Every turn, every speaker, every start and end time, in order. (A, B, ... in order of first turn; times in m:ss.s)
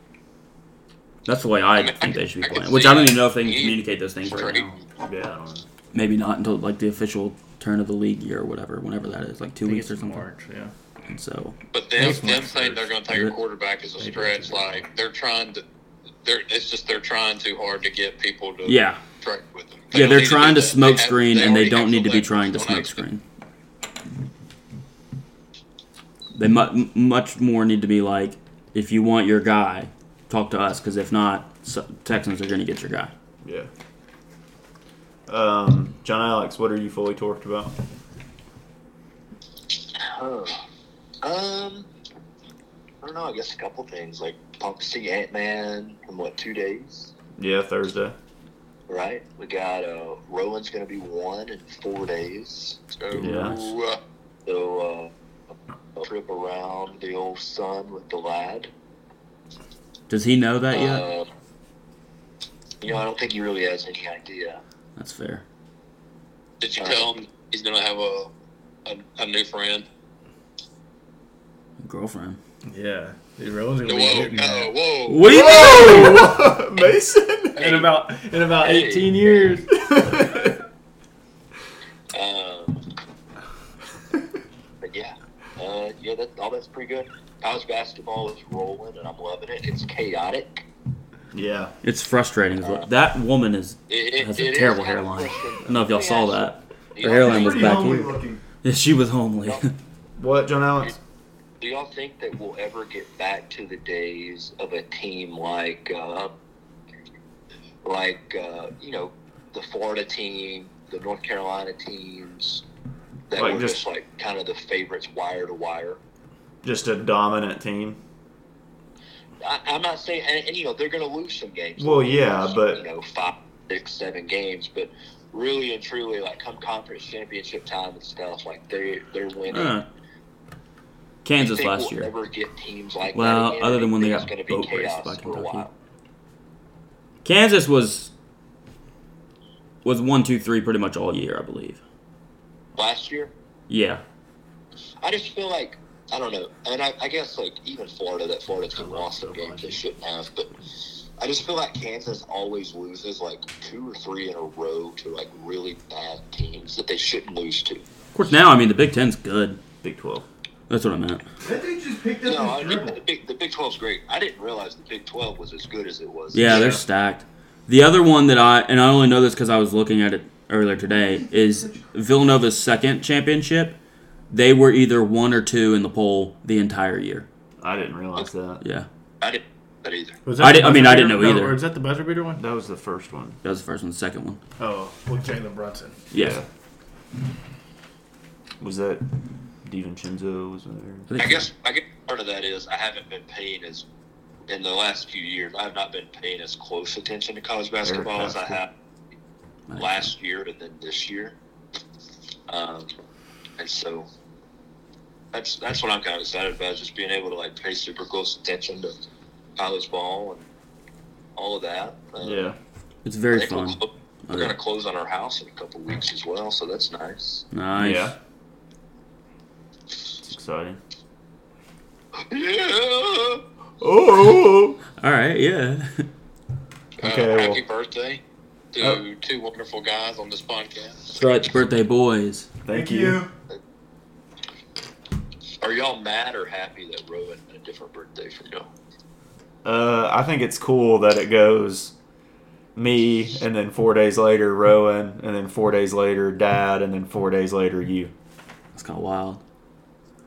0:01.2-0:04.8 A
0:01.8-0:04.8 B
0:05.0-0:05.7 C
0:05.9-0:10.3 A
0:09.6-0:10.7 D
0:11.1-0:11.6 A
0:11.7-0:15.6 B
0:12.0-0:12.9 D
0:14.0-0:14.8 C
0:16.2-0:23.0 B
0:18.6-0:19.0 A
0:19.9-0:23.2 A
0:26.3-0:33.1 A
0:33.4-0:33.7 C
0:35.3-0:37.8 C
0:40.0-0:40.6 E
0:41.2-0:41.9 E
0:43.0-0:47.1 E
0:47.4-0:48.2 C
0:48.9-0:52.8 E
0:52.9-0:54.0 B
0:53.1-0:53.7 A
0:53.2-0:53.6 C
0:54.5-0:55.1 E
0:56.0-0:58.7 E
1:00.1-1:01.0 A
1:00.7-1:01.3 E
1:02.8-1:04.6 E
1:05.0-1:05.4 A
1:06.6-1:08.3 B
1:06.8-1:07.1 E
1:08.8-1:09.9 B
1:11.8-1:12.4 A
1:12.7-1:14.7 D
1:13.8-1:15.5 B
1:15.1-1:16.4 A
1:15.3-1:17.6 C
1:17.6-1:17.9 B
1:17.6-1:19.7 D
1:18.6-1:19.8 E
1:19.8-1:20.5 C
1:22.1-1:22.8 E
1:24.8-1:30.7 E
1:31.3-1:31.7 C
1:31.8-1:39.7 A
1:33.9-1:38.0 E
1:37.2-1:38.4 F
1:40.2-1:41.0 C
1:41.6-1:46.3 E
1:47.8-1:52.6 E
1:53.3-1:56.0 E
1:53.3-1:53.8 C
1:56.6-1:58.0 C
1:59.4-2:09.8 E
2:01.8-2:02.8 C
2:09.5-2:09.9 A
2:11.2-2:12.1 A
2:11.4-2:15.7 E
2:13.1-2:15.7 A
2:17.2-2:18.1 A
2:19.8-2:21.8 A
2:22.8-2:23.3 E
2:23.7-2:24.0 A
2:25.0-2:30.5 E
2:28.7-2:29.8 D
2:31.2-2:37.8 E
2:38.1-2:39.6 A
2:39.8-2:40.3 C
2:40.7-2:41.2 A
2:41.4-2:43.0 F
2:42.2-2:46.8 E
2:46.3-2:53.8 A
2:46.4-2:46.8 C
2:51.1-2:51.8 F
2:54.3-2:57.3 A
2:57.6-2:58.6 C
2:58.6-2:58.9 A
2:59.2-3:00.2 E
3:00.3-3:02.4 D
3:00.4-3:01.6 A
3:02.4-3:03.4 C
3:03.4-3:04.4 A
3:04.6-3:05.0 C
3:05.0-3:06.0 D
3:06.1-3:06.4 A
3:06.1-3:06.5 C
3:08.6-3:09.0 C
3:09.6-3:11.1 C
3:11.1-3:11.5 A
3:11.2-3:13.9 E
3:14.5-3:18.7 E
3:17.8-3:18.6 C
3:19.7-3:20.1 A
3:19.8-3:21.4 E
3:22.5-3:22.9 E
3:23.6-3:24.1 E
3:25.3-3:28.9 E
3:29.6-3:30.5 E
3:31.4-3:32.4 E
3:32.2-3:32.6 C
3:33.0-3:34.6 A
3:33.3-3:37.5 E
3:37.5-3:38.1 A
3:37.8-3:38.2 C
3:40.2-3:40.8 C
3:42.3-3:43.4 E
3:43.8-3:44.8 C
3:45.0-3:46.1 A
3:47.0-3:47.6 C
3:47.0-3:48.2 B
3:48.7-3:51.0 B
3:51.1-3:52.5 A
3:52.6-3:53.2 C
3:52.7-3:53.3 F
3:55.6-3:58.7 E
3:59.6-4:01.9 C
4:02.8-4:08.1 C
4:08.7-4:09.4 A